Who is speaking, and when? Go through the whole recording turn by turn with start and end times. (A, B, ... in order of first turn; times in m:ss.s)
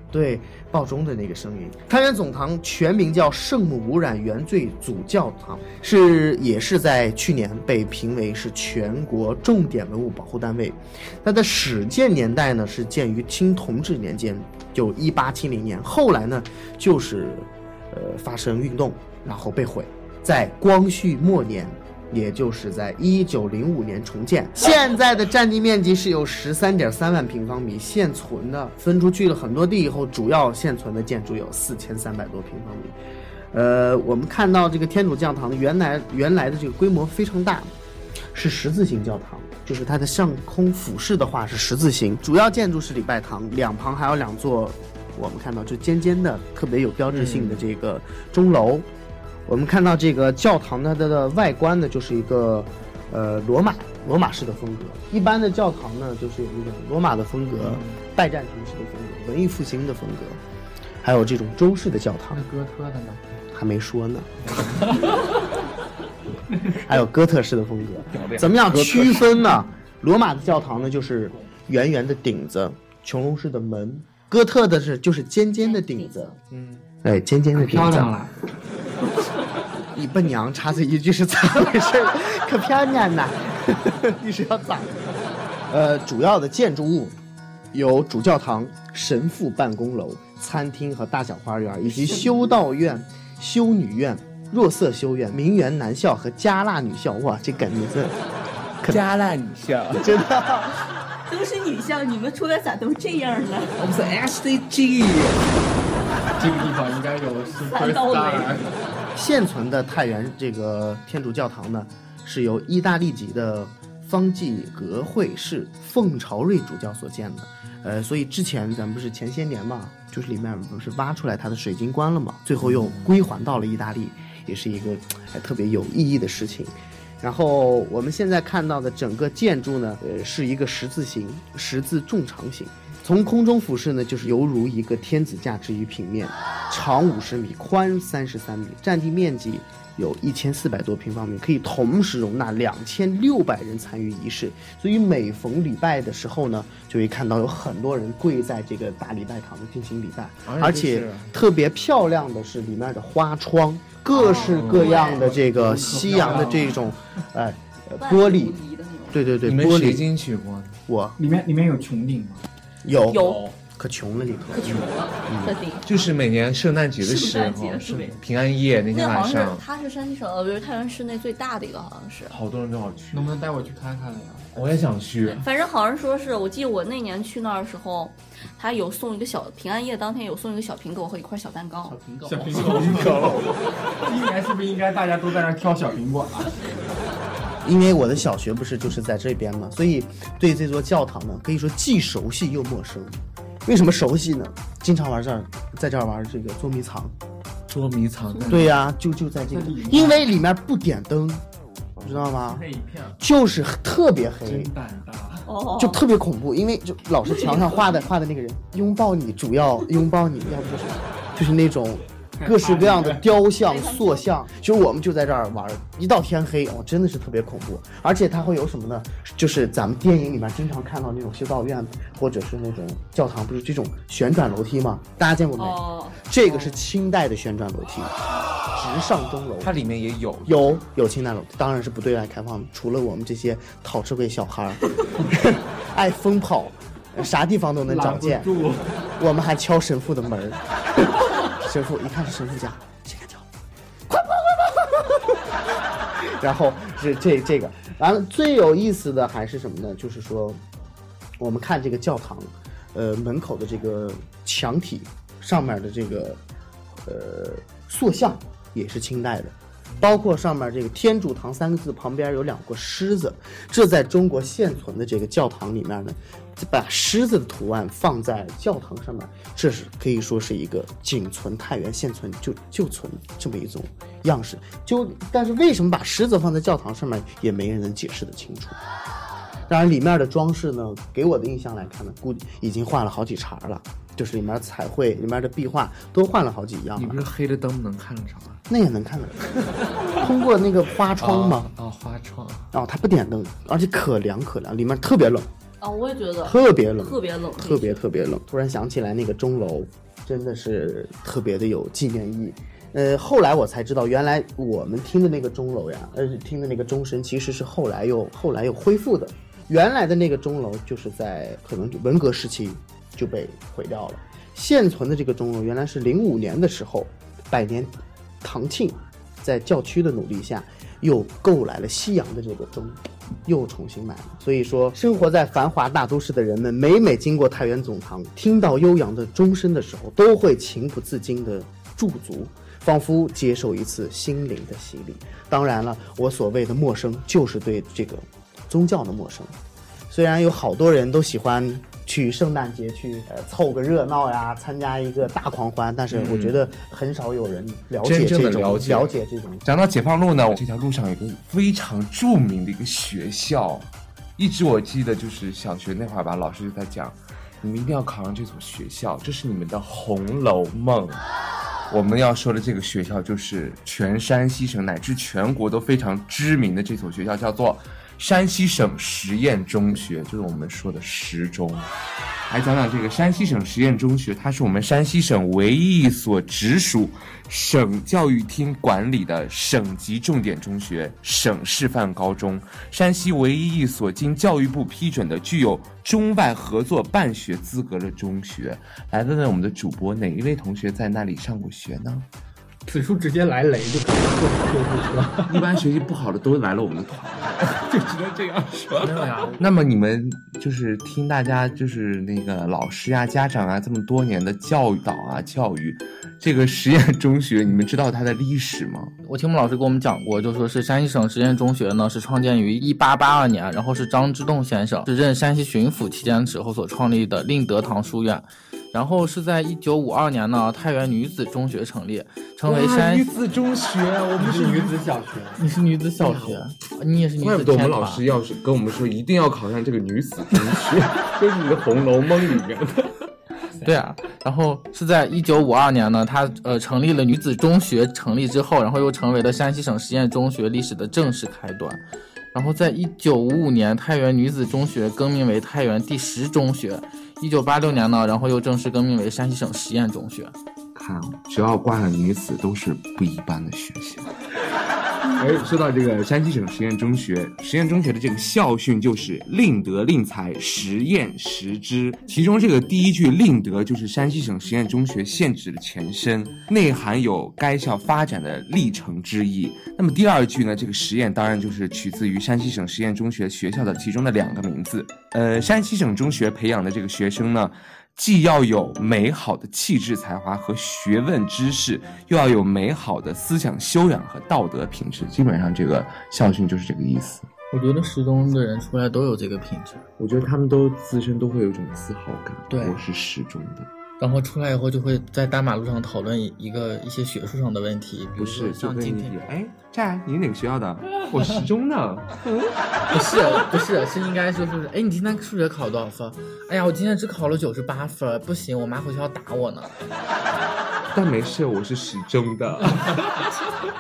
0:00.1-0:33.0 A
0:33.5-0:37.7 A
0:38.3-0:48.9 A
0:47.1-0:47.6 B
0:49.5-1:00.4 A
1:01.0-1:02.4 A
1:02.3-1:03.2 C
1:03.5-1:04.4 A
1:04.5-1:04.8 C
1:06.6-1:06.9 C
1:06.9-1:16.3 A
1:08.1-1:09.3 B
1:15.6-1:16.4 D
1:16.5-1:16.8 B
1:17.0-1:18.2 A
1:17.6-1:18.3 C
1:19.8-1:25.0 A
1:25.7-1:27.2 A
1:27.7-1:38.2 A
1:31.9-1:32.5 D
1:38.9-1:40.2 B
1:40.0-1:40.7 A
1:41.3-1:43.7 D
1:43.8-1:45.6 B
1:46.4-1:48.7 C
1:47.7-1:48.6 D
1:49.2-2:38.6 A
2:30.4-2:31.3 B
2:34.1-2:35.3 D
2:34.5-2:34.9 B
2:35.1-2:36.8 C
2:35.9-2:36.7 D
2:38.0-2:39.3 D
2:39.1-2:40.0 A
2:39.4-2:40.8 B
2:40.9-2:41.2 A
2:41.2-2:42.4 C
2:42.8-2:45.6 A
2:43.0-2:43.5 D
2:44.5-2:46.0 D
2:45.8-2:49.6 B
2:47.0-2:48.2 D
2:48.9-2:52.4 D
2:52.3-2:53.3 B
2:53.1-2:54.5 C
2:54.6-2:55.5 B
2:55.3-3:02.0 D
3:02.2-3:06.6 C
3:02.7-3:03.5 A
3:03.0-3:03.4 D
3:07.6-3:17.1 A
3:17.7-3:18.7 B
3:18.3-3:18.8 D
3:18.5-3:21.4 A
3:19.5-3:20.3 C
3:22.0-3:22.6 A
3:22.1-3:23.2 C
3:23.2-3:24.7 A
3:24.4-3:25.5 C
3:25.5-3:26.0 D
3:25.8-3:48.1 A
3:27.3-3:27.9 D
3:32.4-3:33.2 C
3:33.7-3:34.4 D
3:45.6-3:46.2 D
3:48.7-3:49.7 A
3:49.6-3:50.8 B
3:50.4-3:58.5 A
3:57.9-3:59.1 C
3:59.2-4:03.4 A
4:04.1-4:05.4 A
4:06.2-4:10.6 A
4:11.4-4:16.4 A
4:17.1-4:38.8 A
4:39.7-4:47.3 A
4:47.0-4:48.6 B
4:48.7-4:51.7 A
4:51.2-4:52.7 B
4:52.7-4:55.5 A
4:55.8-4:58.0 D
4:56.4-5:39.5 A
5:40.1-5:49.6 A
5:46.1-5:46.6 B
5:48.0-5:49.1 B
5:49.6-6:01.2 B
6:01.9-6:11.9 B
6:12.5-6:32.3 B
6:32.9-6:35.7 C
6:35.5-6:38.2 B
6:38.0-6:39.5 C
6:38.8-6:49.1 B
6:49.2-7:03.3 E
7:02.6-7:05.0 B
7:04.4-7:05.6 C
7:05.6-7:08.2 E
7:06.2-7:06.6 B
7:07.4-7:13.3 B
7:13.8-7:30.6 E
7:31.0-7:34.3 B
7:35.3-8:07.5 B
8:07.7-8:10.0 E
8:10.2-8:13.9 B
8:12.7-8:13.0 E
8:14.2-8:19.4 E
8:18.4-8:22.3 B
8:23.1-8:29.9 E
8:31.1-8:33.7 B